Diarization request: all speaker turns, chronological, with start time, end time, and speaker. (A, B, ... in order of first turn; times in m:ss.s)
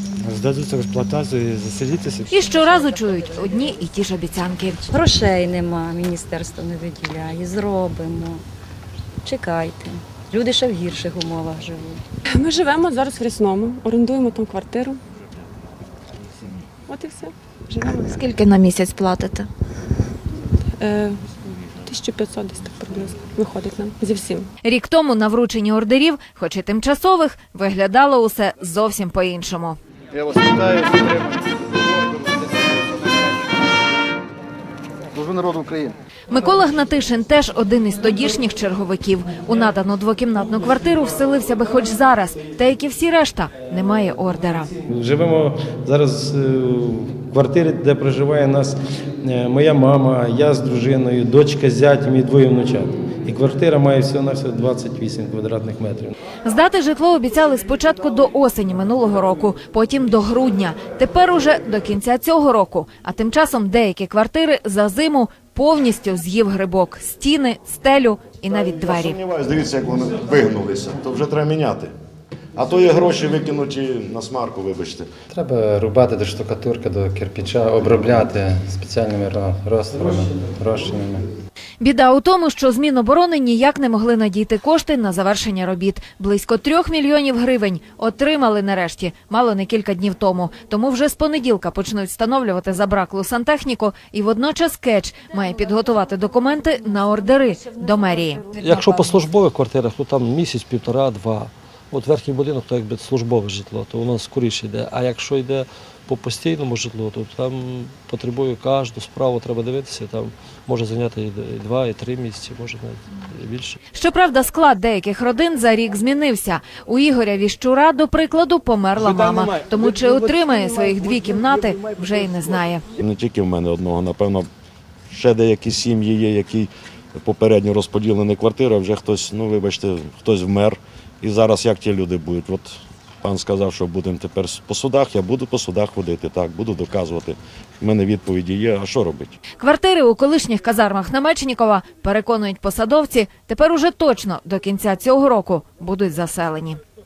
0:00.2-0:02.3 A
0:02.2-0:03.9 B
0:02.3-0:04.9 C
0:04.8-0:08.4 B
0:09.2-0:12.0 B
0:12.3-0:15.0 D
0:16.9-0:18.2 D
0:18.0-0:19.5 C
0:20.8-0:21.2 D
0:21.8-0:24.5 D
0:24.6-0:29.8 C
0:30.1-0:33.2 E
0:35.2-0:35.9 E
0:36.3-0:44.7 C
0:44.8-0:56.2 F
0:56.4-1:09.2 C
1:08.5-1:11.9 G
1:12.6-1:15.1 G
1:15.3-1:21.3 H
1:21.8-1:38.6 C
1:38.6-1:53.8 I
1:53.9-2:02.8 C
2:03.0-2:04.5 G
2:05.1-2:19.4 G
2:19.6-2:26.8 C